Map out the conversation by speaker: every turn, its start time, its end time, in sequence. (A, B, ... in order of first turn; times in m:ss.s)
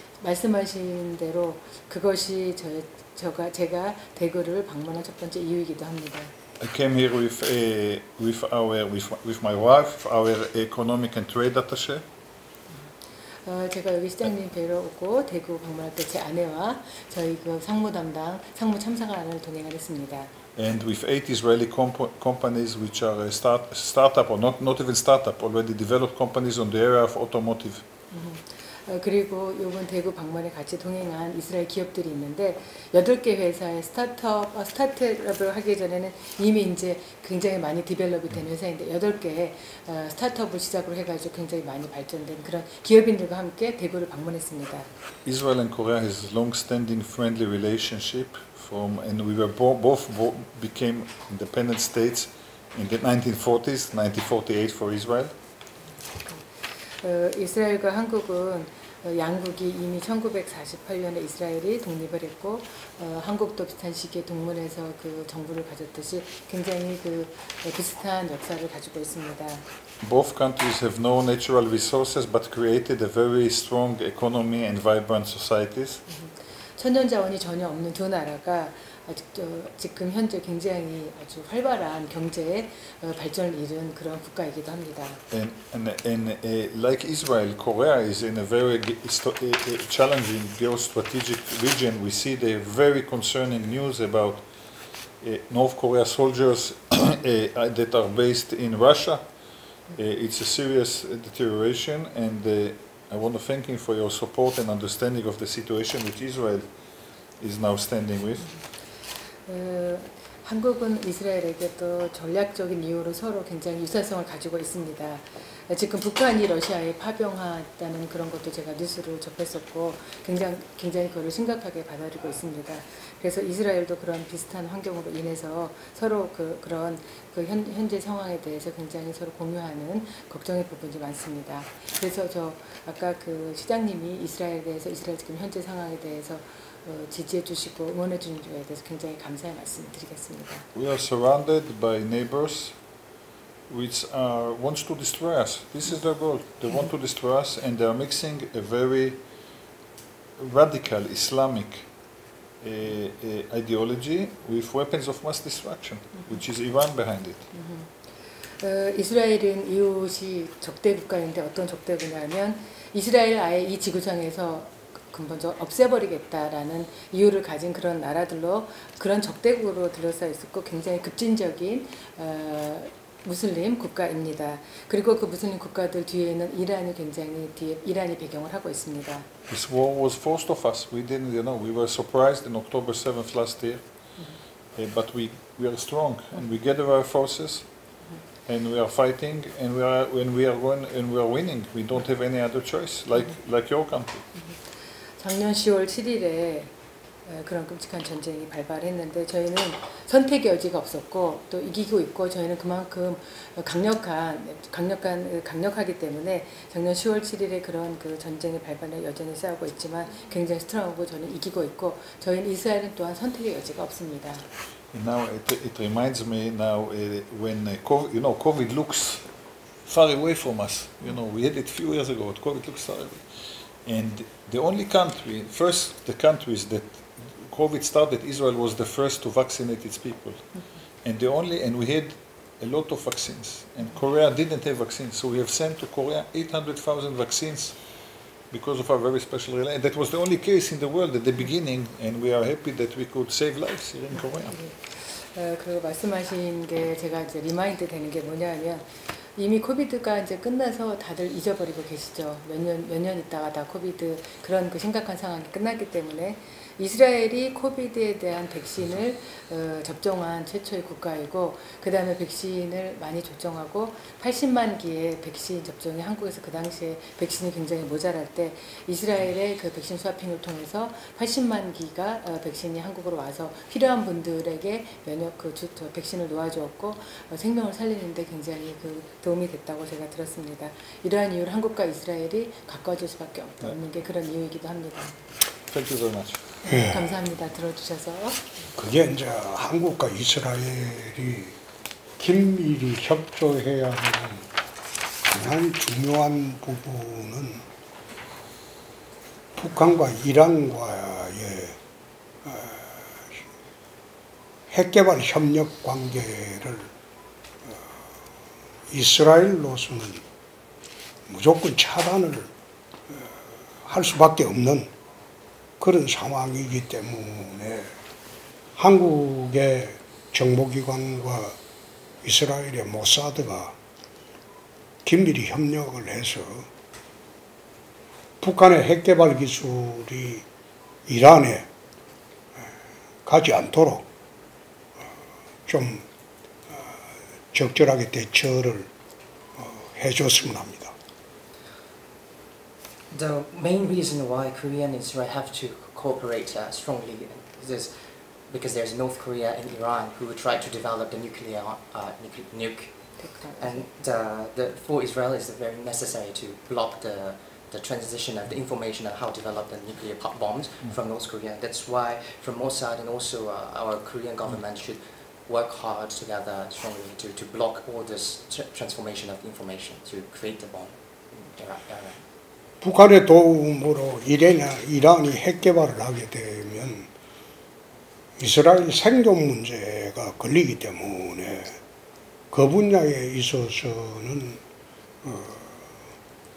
0:00.2-0:06.3 A
0:06.6-0:12.0 B
0:13.5-0:20.3 A
0:20.6-0:27.8 B
0:28.1-0:44.9 A
0:45.2-0:55.3 B
0:57.0-1:09.6 A
1:10.0-1:16.0 B
1:16.1-1:25.2 A
1:25.3-1:34.5 B
1:35.2-1:39.3 B
1:40.0-1:46.7 B
1:47.4-1:48.6 B
1:49.5-2:20.7 A
2:20.8-2:22.8 B
2:23.7-2:29.2 B
2:30.4-2:31.9 B
2:32.6-2:37.5 B
2:37.5-2:37.9 A
2:38.6-2:59.3 A
2:59.5-3:03.8 B
3:04.8-3:07.7 B
3:08.4-3:14.2 B
3:15.2-3:16.7 A
3:17.3-3:34.4 A
3:34.9-3:39.3 B
3:39.9-3:43.3 B
3:43.8-3:50.5 B
3:51.0-3:57.8 B
3:58.5-4:04.6 B
4:04.5-4:45.2 A
4:45.7-4:46.4 B
4:46.6-4:48.4 A
4:46.7-4:47.1 C
4:48.8-4:51.6 C
4:52.2-4:54.5 C
4:55.3-4:57.6 C
4:59.6-5:01.8 C
5:02.4-5:03.4 C
5:04.7-5:06.9 C
5:08.9-5:10.2 C
5:11.3-5:12.5 C
5:13.8-5:14.9 C
5:15.8-5:17.9 C
5:18.8-5:21.6 C
5:22.2-5:23.8 C
5:25.0-5:26.7 C
5:28.4-5:30.4 C
5:31.1-5:31.7 C
5:33.2-5:34.1 C
5:35.7-5:36.0 C
5:37.5-5:38.9 C
5:39.6-5:41.0 C
5:43.1-5:47.9 D
5:48.5-6:12.2 D
5:53.2-5:53.8 A
6:12.8-6:17.1 C
6:18.4-6:21.8 C
6:22.5-6:24.6 C
6:25.2-6:25.8 C